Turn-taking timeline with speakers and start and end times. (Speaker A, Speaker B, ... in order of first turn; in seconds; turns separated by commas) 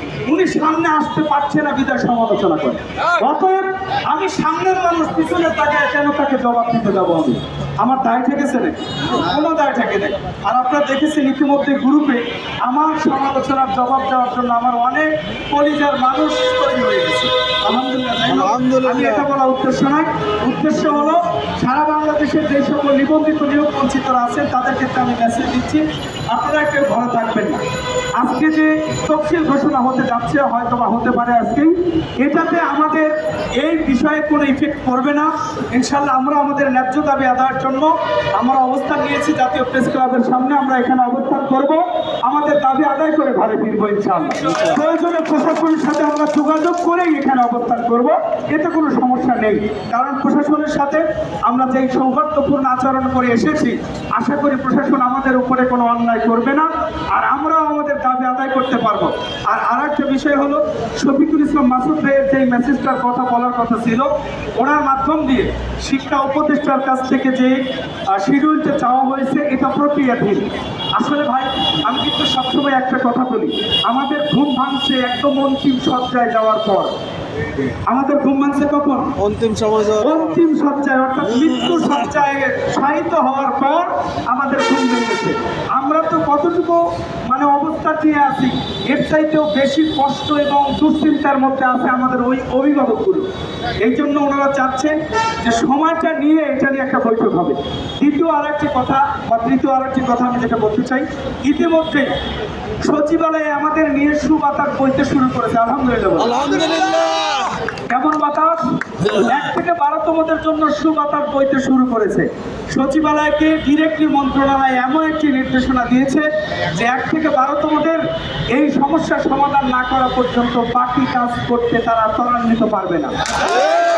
Speaker A: 0.3-27.6, Speaker B: 18.4-19.0, Speaker A: 28.2-67.6, Speaker A: 68.1-76.9, Speaker A: 77.9-79.1, Speaker B: 79.2-80.1, Speaker A: 80.0-93.3, Speaker A: 93.8-102.1, Speaker A: 102.8-106.4, Speaker B: 106.4-107.5, Speaker A: 107.9-123.1